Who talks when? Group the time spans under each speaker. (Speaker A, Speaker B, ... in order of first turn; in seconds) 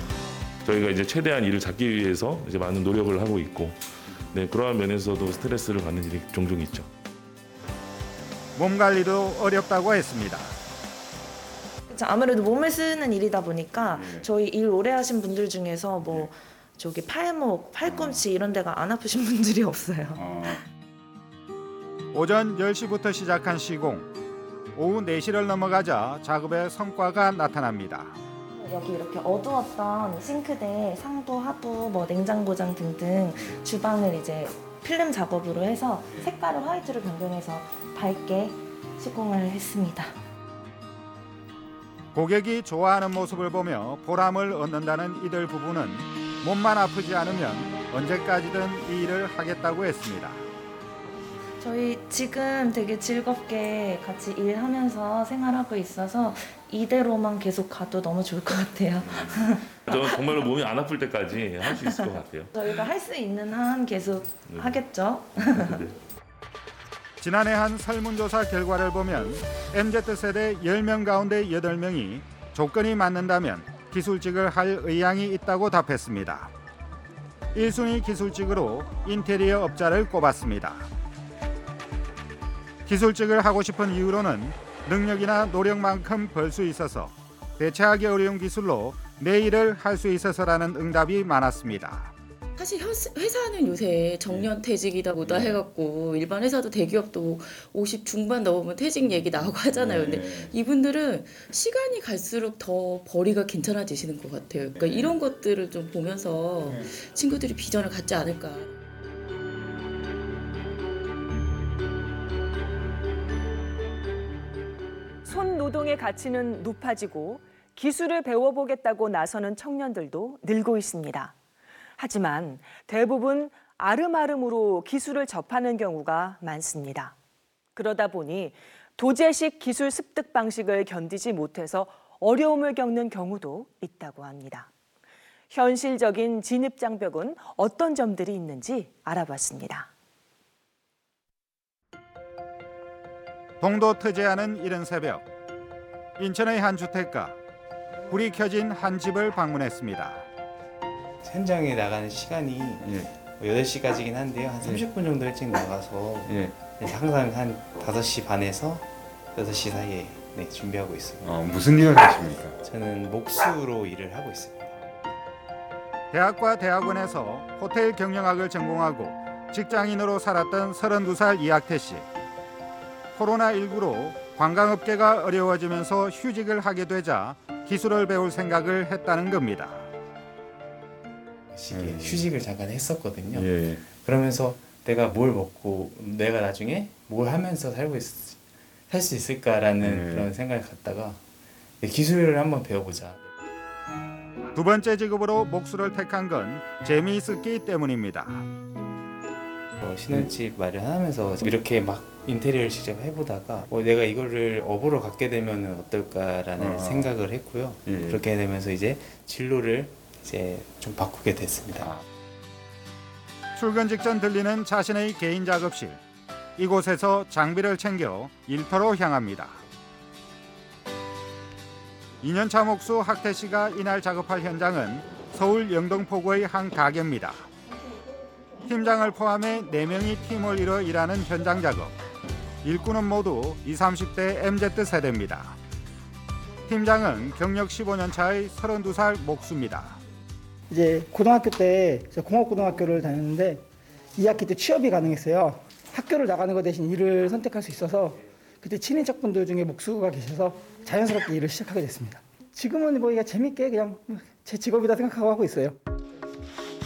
Speaker A: 0.6-6.9, 59.0-62.8, 64.4-65.9
Speaker B: 8.6-10.6, 22.1-24.1, 24.7-28.2, 42.1-50.4, 67.2-76.5, 77.5-80.9, 82.8-92.1, 143.6-145.2, 146.2-147.3, 148.1-150.2, 166.1-172.1, 173.2-179.9, 194.5-198.4, 213.6-216.0, 216.6-219.6, 222.2-227.5, 228.6-231.9, 232.6-235.6, 236.7-240.0
Speaker C: 11.9-20.5, 28.5-40.1, 51.6-60.2, 61.7-65.8
Speaker D: 13.8-14.3, 17.8-18.2, 20.1-20.6, 99.9-100.5, 104.8-105.1, 152.8-153.1, 156.2-156.5, 161.2-162.6, 181.7-182.3, 183.3-183.8, 189.8-190.3, 206.6-207.1, 207.8-208.2
Speaker E: 92.6-108.7
Speaker F: 115.2-121.3, 122.0-127.1, 127.8-134.7, 135.5-139.9
Speaker G: 151.2-161.4, 162.6-164.7, 181.5-191.2, 191.8-193.2, 199.8-211.9
Speaker H: 240.7-243.6, 244.1-255.8